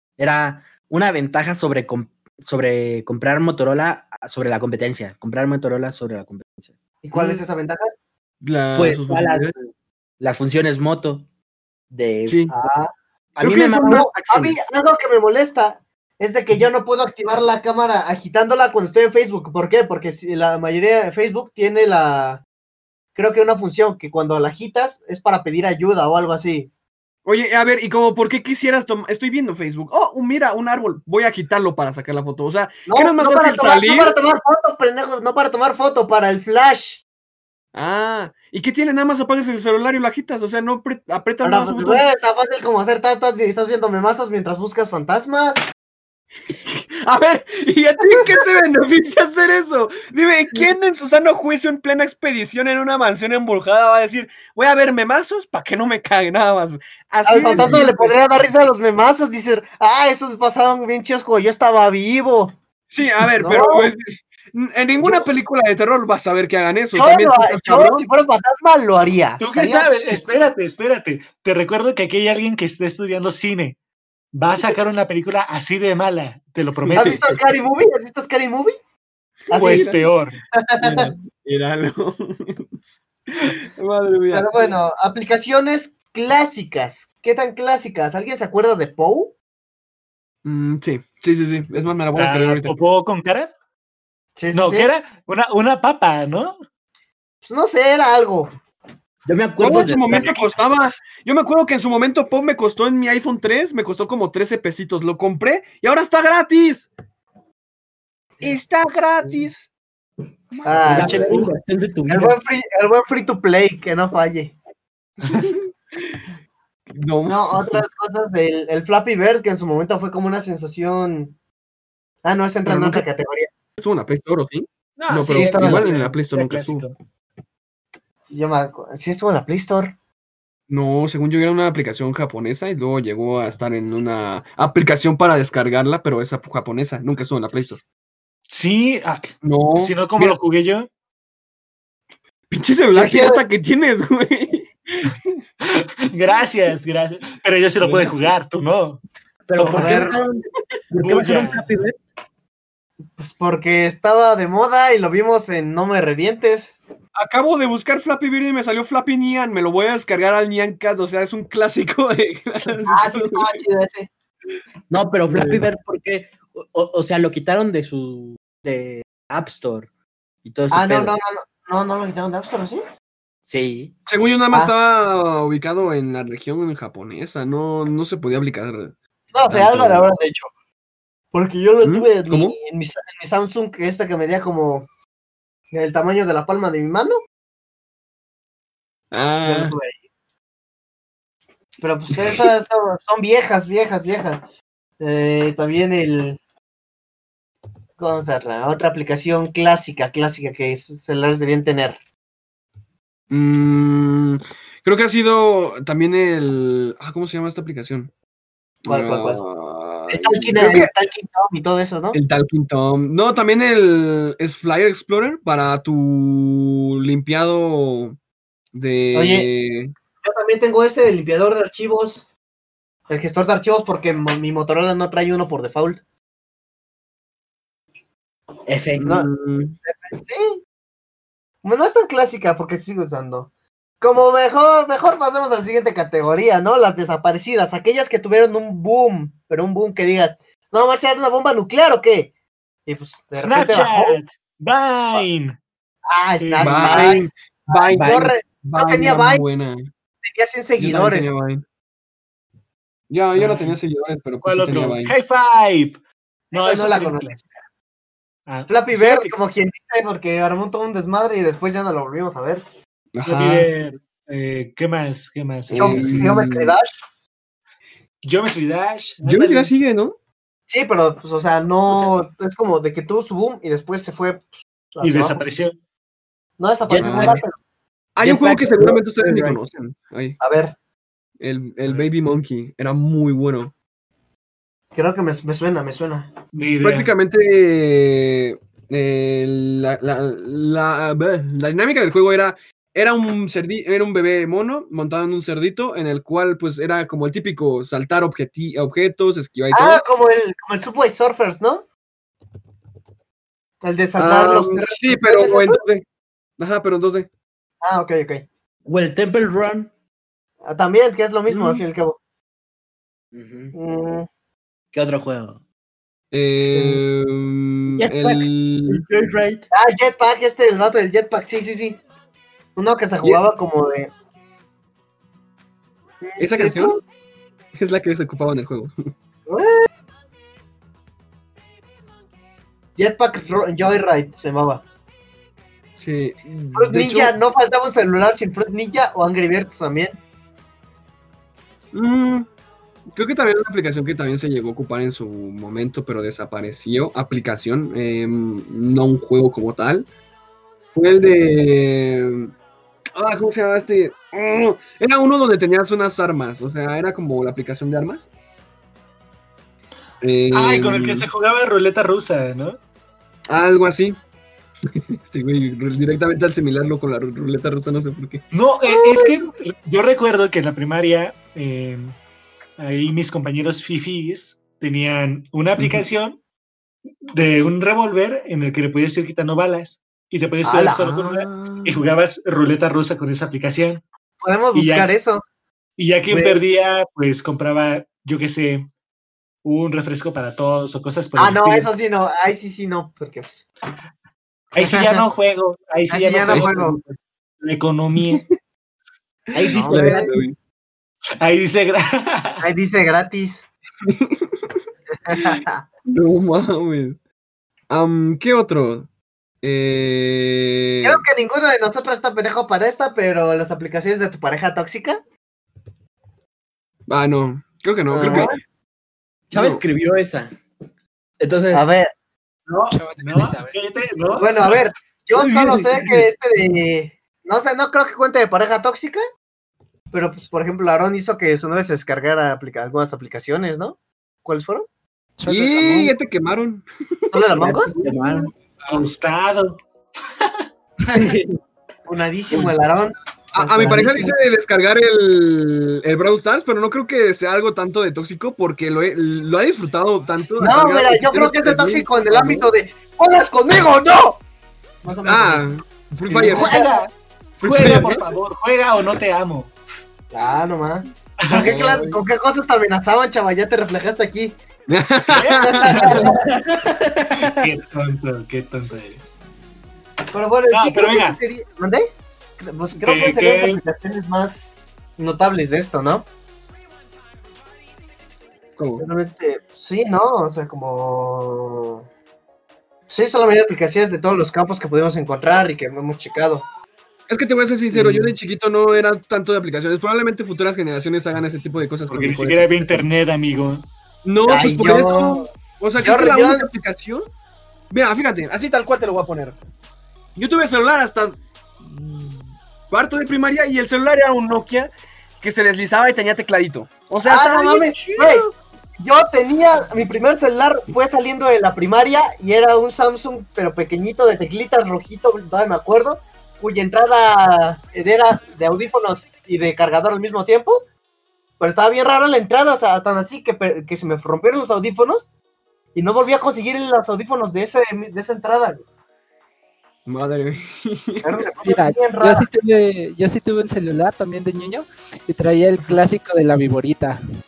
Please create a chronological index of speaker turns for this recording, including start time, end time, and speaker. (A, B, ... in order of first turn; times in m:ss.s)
0:00.2-0:06.8 A
0:07.0-0:07.9 B
0:07.1-0:07.4 C
0:08.4-0:09.6 C
0:08.7-0:11.2 A
0:11.9-0:12.6 A
0:12.2-0:12.5 C
0:12.5-0:12.9 B
0:13.4-0:14.6 C
0:13.4-0:14.1 A
0:13.8-0:22.4 B
0:23.1-0:26.7 B
0:27.2-0:34.2 C
0:32.9-0:37.0 B
0:37.7-0:42.0 C
0:41.4-0:45.6 B
0:46.6-0:58.2 C
0:57.2-1:02.6 B
1:02.9-1:08.0 C
1:03.4-1:03.9 B
1:05.0-1:05.3 B
1:06.9-1:10.2 B
1:09.4-1:13.8 D
1:14.3-1:17.4 D
1:16.8-1:17.2 C
1:16.9-1:18.8 B
1:19.5-1:20.0 C
1:19.5-1:20.0 B
1:19.5-1:20.4 D
1:20.5-1:21.1 B
1:20.8-1:22.7 C
1:23.3-1:24.7 C
1:24.3-1:29.3 B
1:30.4-1:32.8 C
1:32.2-1:33.5 D
1:34.4-1:34.9 B
1:34.5-1:36.6 D
1:37.4-1:38.5 B
1:39.2-1:40.5 A
1:39.6-1:46.9 C
1:48.4-1:49.7 C
1:50.5-1:51.2 C
1:50.6-1:51.5 B
1:50.8-1:51.5 D
1:50.9-1:52.4 A
1:52.1-1:54.5 B
1:55.2-1:55.6 C
1:56.9-1:57.8 C
1:57.3-2:01.4 B
2:02.2-2:03.5 B
2:02.6-2:03.0 C
2:03.8-2:06.9 C
2:05.0-2:06.9 D
2:05.3-2:05.9 B
2:08.3-2:09.9 B
2:10.7-2:17.8 C
2:18.5-2:20.9 D
2:19.4-2:20.4 C
2:22.5-2:25.4 C
2:22.9-2:23.4 B
2:25.6-2:29.0 D
2:27.8-2:28.1 C
2:29.5-2:32.0 A
2:29.5-2:30.1 D
2:29.7-2:30.1 B
2:29.7-2:30.2 C
2:31.0-2:31.6 D
2:33.2-2:36.8 B
2:37.2-2:43.6 C
2:42.8-2:44.1 B
2:44.9-2:49.9 A
2:45.3-2:45.6 C
2:50.4-2:51.1 A
2:50.7-2:52.8 B
2:53.4-2:53.9 A
2:54.1-2:58.9 C
2:59.3-3:00.5 B
2:59.5-3:00.1 C
3:01.3-3:04.9 B
3:01.8-3:02.6 C
3:05.7-3:07.2 B
3:09.1-3:09.8 C
3:09.4-3:10.0 B
3:11.8-3:14.4 B
3:12.2-3:12.5 C
3:15.0-3:16.4 B
3:18.0-3:22.0 B
3:23.3-3:28.1 C
3:28.8-3:30.9 C
3:28.8-3:29.4 B
3:30.1-3:32.2 B
3:32.1-3:38.2 C
3:38.7-3:39.9 C
3:39.1-3:39.5 B
3:40.2-3:42.2 B
3:43.1-3:46.0 B
3:48.7-3:49.1 A
3:49.0-3:49.8 C
3:49.8-3:50.6 B
3:51.6-3:53.5 B
3:54.0-4:02.3 B
4:02.8-4:04.2 B
4:03.4-4:05.6 D
4:06.1-4:09.4 B
4:06.4-4:07.2 D
4:06.6-4:09.9 C
4:07.9-4:08.3 A
4:10.2-4:11.3 B
4:10.8-4:11.6 C
4:13.1-4:15.1 C
4:13.4-4:13.7 D
4:14.4-4:17.5 D
4:16.5-4:17.4 B
4:18.5-4:19.3 D
4:18.7-4:22.6 B
4:23.1-4:23.7 C
4:23.2-4:26.3 D
4:25.7-4:26.8 C
4:25.8-4:26.9 B
4:28.2-4:29.2 D
4:29.2-4:29.7 B
4:29.2-4:30.2 C
4:30.7-4:35.4 B
4:35.0-4:35.8 D
4:36.6-4:37.6 B
4:36.9-4:37.4 A
4:36.9-4:37.4 C
4:38.2-4:40.4 C
4:38.2-4:39.5 A
4:40.4-4:40.7 B
4:41.4-4:43.7 C
4:44.9-4:46.3 B
4:46.5-4:47.1 D
4:46.8-5:00.0 C
4:59.7-5:01.8 B
5:03.8-5:05.8 B
5:04.2-5:06.0 C
5:06.6-5:07.3 C
5:07.8-5:08.4 B
5:08.9-5:09.9 A
5:10.6-5:12.2 B
5:11.5-5:11.8 C
5:13.3-5:13.7 A
5:13.7-5:14.3 B
5:14.9-5:15.6 A
5:16.3-5:19.0 C
5:17.9-5:19.7 A
5:19.7-5:22.0 B
5:22.8-5:24.1 B
5:26.2-5:27.0 B
5:26.4-5:27.0 C
5:27.7-5:29.1 C
5:29.5-5:29.8 B
5:33.0-5:34.8 B
5:36.0-5:37.3 C
5:36.7-5:40.2 B
5:41.9-5:42.5 C
5:43.1-5:50.1 C
5:50.9-5:52.5 C
5:53.2-5:58.3 C
6:00.2-6:01.3 C
6:00.5-6:02.8 D
6:03.5-6:04.2 C
6:04.9-6:08.4 C
6:08.5-6:12.2 D
6:08.9-6:09.4 B
6:12.8-6:16.4 D
6:17.3-6:24.0 D
6:20.6-6:21.8 B
6:24.4-6:25.4 B
6:24.7-6:25.1 D
6:26.0-6:28.9 D
6:26.3-6:26.6 B
6:29.6-6:31.9 D
6:31.4-6:33.6 B
6:34.7-6:38.4 D
6:34.8-6:35.2 B
6:36.1-6:37.0 B
6:36.4-6:36.7 C
6:39.5-6:40.4 A
6:39.7-6:40.3 B
6:39.9-6:40.6 C
6:41.4-6:42.6 D
6:42.6-6:43.6 B
6:44.0-6:44.8 C
6:45.2-6:45.8 B
6:45.3-6:47.2 C
6:47.9-6:49.1 C
6:49.6-6:51.2 C
6:51.0-6:55.2 B
6:57.1-6:58.6 C
6:58.1-6:58.6 B
6:59.5-7:00.5 A
6:59.5-6:59.8 C
7:01.4-7:01.9 A
7:01.7-7:02.1 B
7:02.7-7:04.8 D
7:02.9-7:03.7 E
7:04.4-7:09.2 B
7:05.4-7:06.1 C
7:10.1-7:14.9 B
7:15.4-7:16.1 E
7:15.4-7:17.4 C
7:17.3-7:18.0 B
7:17.5-7:18.5 A
7:18.8-7:19.8 D
7:21.1-7:21.4 E
7:21.1-7:21.6 A
7:22.0-7:24.3 B
7:23.5-7:32.7 C
7:30.6-7:34.4 B
7:35.0-7:35.6 B
7:35.2-7:36.8 C
7:36.3-7:39.7 D
7:36.5-7:37.0 B
7:37.6-7:38.3 C
7:40.3-7:44.6 B
7:41.4-7:41.7 D
7:41.5-7:42.2 C
7:44.9-7:46.3 C
7:45.3-7:46.4 D
7:45.6-7:46.4 B
7:46.4-7:47.6 A
7:47.3-7:49.4 D
7:50.3-7:56.2 B
7:50.7-7:51.4 D
7:53.0-7:53.8 D
7:58.8-7:59.1 C
7:59.0-8:02.0 B
8:03.1-8:06.6 B
8:07.3-8:13.0 C
8:07.9-8:08.3 B
8:12.1-8:13.9 D
8:14.2-8:17.3 C
8:14.5-8:15.5 B
8:16.0-8:16.7 B
8:17.9-8:19.6 C
8:20.4-8:28.5 C
8:27.2-8:28.5 B
8:29.0-8:40.8 B
8:41.6-8:45.3 B
8:45.9-8:48.8 B
8:50.0-8:51.5 C
8:51.2-8:52.5 B
8:51.6-8:57.2 E